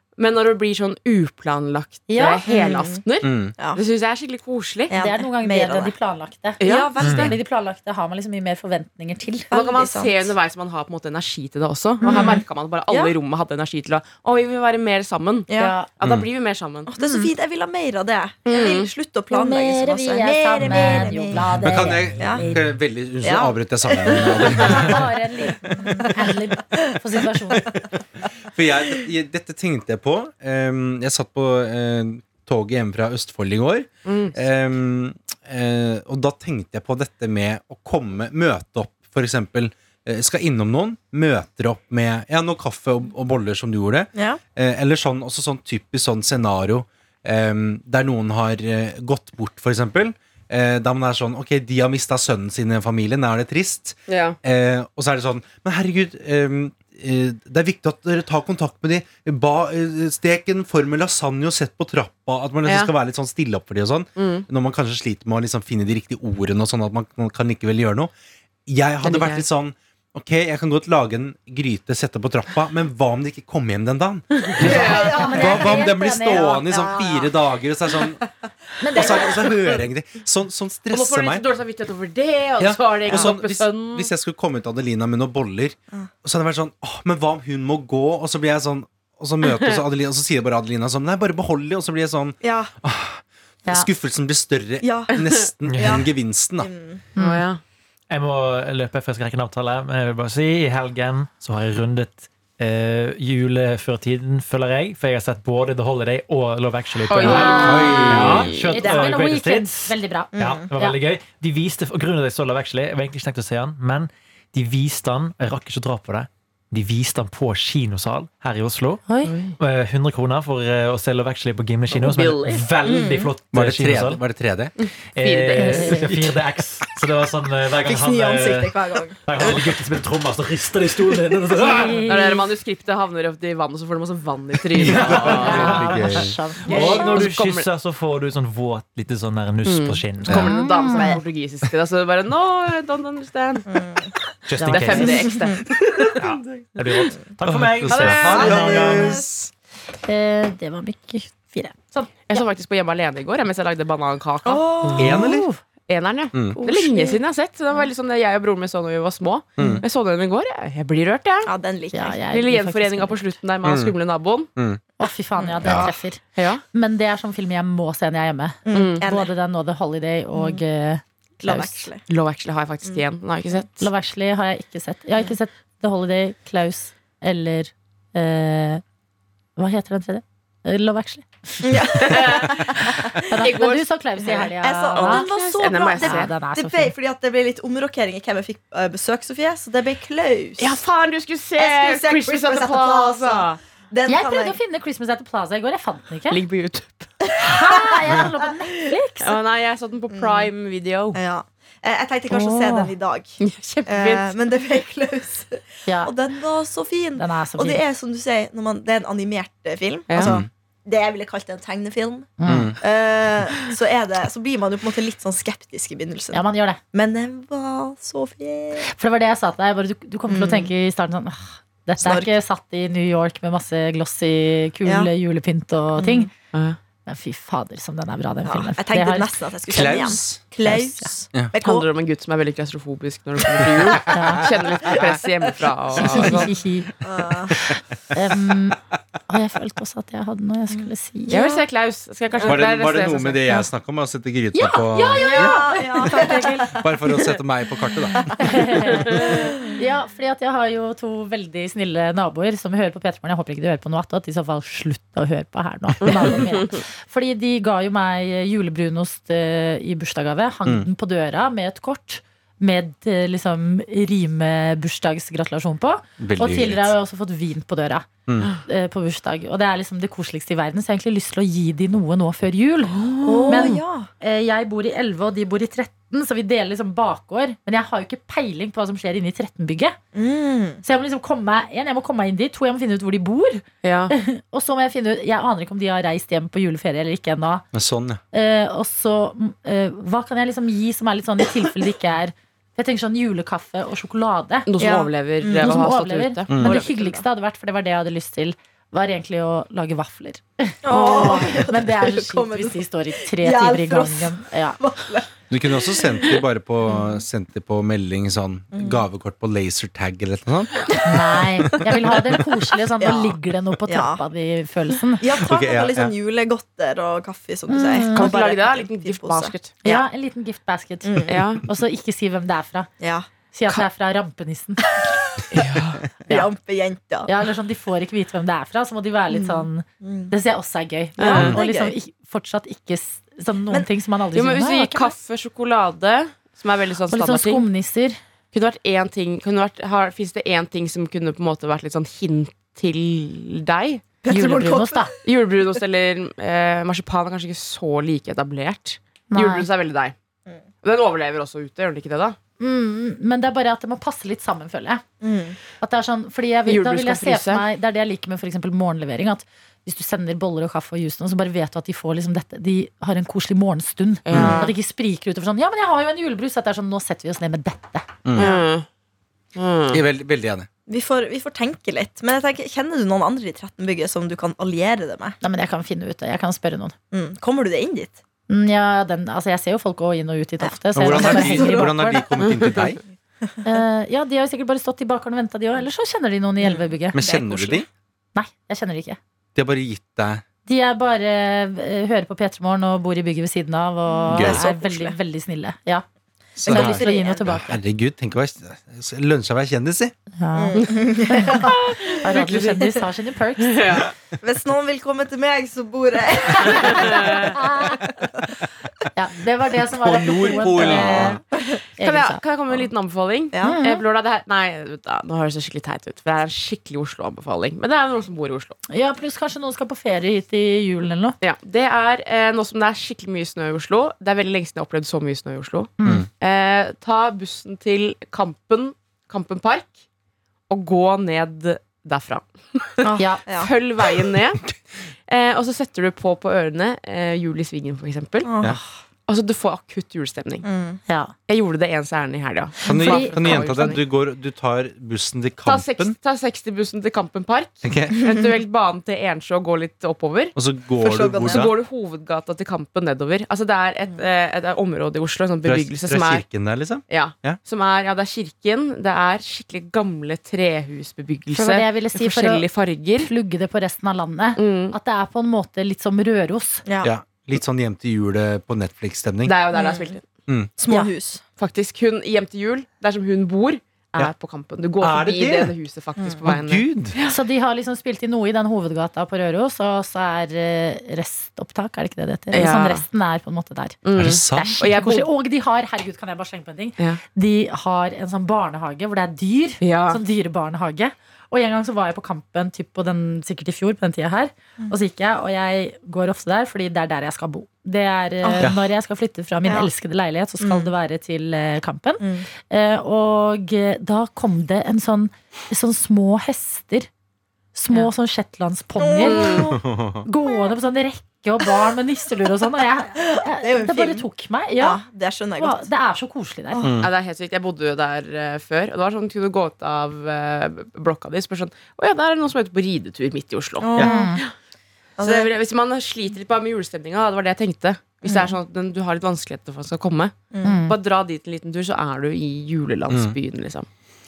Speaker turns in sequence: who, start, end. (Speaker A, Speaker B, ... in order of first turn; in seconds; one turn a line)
Speaker A: 0.2-4.9
Speaker B: 2.1-2.4
Speaker C: 2.5-3.0
Speaker D: 3.2-3.5
Speaker C: 4.9-5.9
Speaker B: 4.9-9.5
Speaker A: 6.6-6.9
Speaker C: 6.6-7.4
Speaker E: 7.0-7.4
Speaker C: 9.5-10.3
Speaker A: 9.5-16.9
Speaker C: 12.0-13.1
Speaker B: 12.0-12.4
Speaker C: 15.5-15.8
Speaker B: 15.5-15.9
Speaker C: 16.9-21.5
Speaker B: 17.0-17.3
Speaker A: 18.5-18.9
Speaker B: 19.3-22.7
Speaker D: 21.6-25.0
Speaker E: 21.7-22.2
Speaker C: 23.2-25.0
Speaker B: 24.6-27.6
Speaker C: 25.6-26.3
Speaker D: 28.5-68.1
Speaker A: 34.0-34.4
Speaker C: 44.1-44.4
Speaker A: 54.1-54.4
Speaker A: 62.7-62.9
Speaker A: 64.2-64.5
Speaker D: 68.7-78.3
Speaker A: 69.0-69.5
Speaker A: 74.4-75.2
Speaker C: 74.6-75.8
Speaker B: 74.6-77.3
Speaker C: 76.7-77.1
Speaker B: 78.8-79.5
Speaker D: 78.9-81.4
Speaker C: 78.9-79.8
Speaker A: 80.9-84.1
Speaker D: 82.6-96.7
Speaker A: 89.4-89.8
Speaker C: 92.4-92.7
Speaker C: 94.8-95.2
Speaker E: 95.7-96.0
Speaker C: 95.8-97.0
Speaker B: 97.2-97.5
Speaker A: 97.2-97.6
Speaker E: 98.1-119.0
Speaker A: 107.1-108.9
Speaker B: 107.2-111.0
Speaker D: 107.6-108.5
Speaker C: 110.3-110.7
Speaker B: 119.1-119.3
Speaker A: 119.2-119.5
Speaker E: 119.6-124.2
Speaker A: 121.9-122.7
Speaker C: 122.8-123.3
Speaker D: 123.5-124.7
Speaker A: 124.8-126.2
Speaker E: 125.2-132.1
Speaker B: 125.6-126.0
Speaker C: 127.8-129.2
Speaker B: 131.6-132.4
Speaker A: 132.1-135.9
Speaker E: 134.7-140.5
Speaker D: 134.8-136.3
Speaker B: 135.2-137.2
Speaker A: 136.7-137.7
Speaker A: 139.7-143.7
Speaker D: 140.3-140.5
Speaker B: 140.3-141.2
Speaker C: 140.9-141.2
Speaker C: 143.7-144.2
Speaker E: 144.5-145.2
Speaker B: 144.6-145.2
Speaker A: 144.7-146.1
Speaker C: 145.2-146.2
Speaker E: 146.2-149.3
Speaker D: 147.4-149.5
Speaker C: 147.9-149.3
Speaker B: 150.1-152.4
Speaker A: 152.3-155.1
Speaker C: 154.4-155.2
Speaker B: 154.8-155.6
Speaker D: 155.0-155.5
Speaker A: 155.9-161.5
Speaker D: 156.3-156.6
Speaker C: 156.6-157.2
Speaker D: 159.6-159.8
Speaker C: 161.5-162.2
Speaker B: 161.9-163.2
Speaker A: 162.3-164.5
Speaker D: 163.6-163.9
Speaker D: 164.6-164.8
Speaker B: 165.0-166.2
Speaker C: 165.4-166.0
Speaker D: 165.6-165.9
Speaker A: 166.3-166.6
Speaker B: 166.7-171.9
Speaker C: 168.7-169.3
Speaker A: 168.7-169.0
Speaker C: 171.4-172.0
Speaker A: 172.1-173.9
Speaker B: 173.8-178.8
Speaker B: 179.6-185.3
Speaker C: 181.6-183.2
Speaker A: 182.0-183.8
Speaker C: 184.2-190.8
Speaker A: 184.9-186.3
Speaker B: 186.0-186.9
Speaker A: 190.6-193.6
Speaker C: 191.6-194.6
Speaker B: 194.1-196.4
Speaker A: 196.3-197.3
Speaker C: 197.3-198.0
Speaker B: 197.4-199.3
Speaker A: 199.2-201.2
Speaker C: 200.1-200.5
Speaker C: 201.2-216.4
Speaker B: 202.3-202.9
Speaker A: 203.4-204.3
Speaker B: 205.9-206.1
Speaker B: 207.2-207.8
Speaker A: 210.1-210.4
Speaker D: 210.2-210.5
Speaker B: 212.4-212.7
Speaker D: 212.5-212.8
Speaker B: 216.3-216.8
Speaker C: 216.9-218.9
Speaker B: 218.8-226.3
Speaker C: 220.3-220.7
Speaker C: 222.0-222.3
Speaker C: 224.8-225.1
Speaker C: 226.0-226.3
Speaker A: 226.5-226.8
Speaker B: 227.1-230.0
Speaker C: 228.5-231.9
Speaker D: 229.7-230.4
Speaker B: 230.6-231.1
Speaker A: 231.6-236.5
Speaker B: 234.1-234.4
Speaker B: 236.0-236.9
Speaker C: 236.0-236.5
Speaker C: 237.0-237.6
Speaker B: 237.6-241.4
Speaker C: 240.7-241.6
Speaker A: 241.3-243.4
Speaker D: 242.5-245.6
Speaker B: 244.5-246.8
Speaker C: 245.2-246.8
Speaker D: 246.7-249.0
Speaker C: 248.2-249.8
Speaker B: 248.4-268.1
Speaker A: 249.1-249.5
Speaker A: 256.0-256.8
Speaker D: 266.2-266.9
Speaker B: 268.6-280.0
Speaker A: 272.9-273.8
Speaker C: 273.2-274.1
Speaker C: 280.1-280.8
Speaker B: 280.8-287.6
Speaker A: 283.8-284.1
Speaker D: 287.7-288.2
Speaker B: 288.3-294.7
Speaker A: 294.7-296.7
Speaker C: 294.8-295.9
Speaker B: 295.5-304.8
Speaker D: 296.5-296.8
Speaker C: 296.6-297.2
Speaker C: 300.9-307.2
Speaker D: 305.5-310.9
Speaker C: 308.7-309.0
Speaker B: 311.1-315.2
Speaker D: 311.7-312.2
Speaker C: 313.0-314.2
Speaker C: 315.2-320.1
Speaker D: 315.3-316.1
Speaker B: 317.7-318.3
Speaker A: 318.1-319.7
Speaker B: 319.8-322.9
Speaker C: 321.0-321.4
Speaker A: 321.3-321.6
Speaker C: 323.0-323.3
Speaker B: 323.5-324.8
Speaker C: 325.0-325.7
Speaker A: 325.5-326.5
Speaker C: 326.3-327.3
Speaker B: 327.3-335.1
Speaker C: 329.3-330.3
Speaker C: 331.2-331.9
Speaker A: 331.2-331.6
Speaker A: 334.3-337.6
Speaker B: 337.1-338.2
Speaker A: 338.5-344.0
Speaker C: 344.2-345.0
Speaker B: 344.3-345.1
Speaker A: 345.2-350.1
Speaker B: 349.3-349.7
Speaker A: 350.8-352.4
Speaker B: 352.6-355.0
Speaker C: 355.2-355.6
Speaker B: 355.8-368.1
Speaker A: 356.7-357.6
Speaker A: 364.3-364.7
Speaker D: 364.3-364.6
Speaker C: 364.4-364.7
Speaker D: 368.2-368.5
Speaker A: 368.4-368.9
Speaker C: 368.4-368.6
Speaker A: 369.6-370.0
Speaker D: 369.9-370.7
Speaker C: 370.9-375.4
Speaker B: 375.4-376.9
Speaker C: 377.1-378.2
Speaker B: 378.5-382.3
Speaker C: 380.6-382.0
Speaker D: 380.9-383.0
Speaker B: 383.6-387.2
Speaker C: 386.6-387.9
Speaker D: 387.1-387.9
Speaker B: 388.4-389.2
Speaker D: 389.6-390.4
Speaker B: 390.7-396.1
Speaker C: 394.1-395.1
Speaker D: 394.3-394.6
Speaker D: 396.6-400.1
Speaker C: 396.6-397.5
Speaker B: 396.6-397.8
Speaker B: 400.4-403.8
Speaker C: 400.6-402.9
Speaker A: 402.4-402.8
Speaker A: 403.6-404.1
Speaker C: 404.4-408.3
Speaker A: 407.1-407.4
Speaker B: 407.4-408.0
Speaker B: 409.1-411.4
Speaker D: 410.0-411.4
Speaker C: 410.6-411.8
Speaker B: 412.0-412.4
Speaker A: 412.0-418.8
Speaker C: 413.5-413.8
Speaker B: 413.6-414.0
Speaker B: 418.9-421.4
Speaker A: 421.4-429.9
Speaker B: 426.0-426.2
Speaker A: 430.7-434.7
Speaker C: 433.0-433.7
Speaker B: 433.2-433.4
Speaker A: 435.3-438.5
Speaker C: 438.4-438.8
Speaker A: 439.3-440.7
Speaker C: 440.6-441.0
Speaker B: 441.1-441.3
Speaker A: 441.5-444.0
Speaker D: 442.9-446.1
Speaker B: 442.9-444.0
Speaker A: 445.6-450.6
Speaker D: 447.8-448.3
Speaker D: 450.6-451.7
Speaker C: 451.0-451.7
Speaker A: 451.4-456.4
Speaker D: 455.6-457.6
Speaker A: 457.1-463.3
Speaker B: 461.6-462.7
Speaker B: 463.2-466.8
Speaker A: 464.6-464.9
Speaker C: 466.9-467.1
Speaker D: 467.0-469.6
Speaker A: 469.4-470.3
Speaker C: 469.7-470.1
Speaker C: 470.8-471.4
Speaker A: 471.6-477.4
Speaker D: 475.0-475.8
Speaker D: 476.4-477.1
Speaker B: 477.3-507.1
Speaker A: 482.5-483.0
Speaker A: 484.1-485.3
Speaker D: 484.2-485.0
Speaker A: 489.8-490.2
Speaker C: 498.4-498.7
Speaker C: 500.6-500.9
Speaker C: 502.2-502.5
Speaker B: 507.8-515.0
Speaker C: 509.0-509.8
Speaker A: 509.2-509.7
Speaker D: 509.8-510.2
Speaker C: 513.2-514.2
Speaker C: 514.8-515.9
Speaker B: 515.6-516.8
Speaker C: 516.7-517.0
Speaker D: 516.8-517.1
Speaker A: 517.0-524.5
Speaker C: 523.8-524.4
Speaker B: 524.0-524.4
Speaker C: 525.2-525.5
Speaker A: 525.2-533.9
Speaker C: 528.2-528.5
Speaker C: 530.5-530.8
Speaker B: 530.6-531.0
Speaker D: 533.1-533.4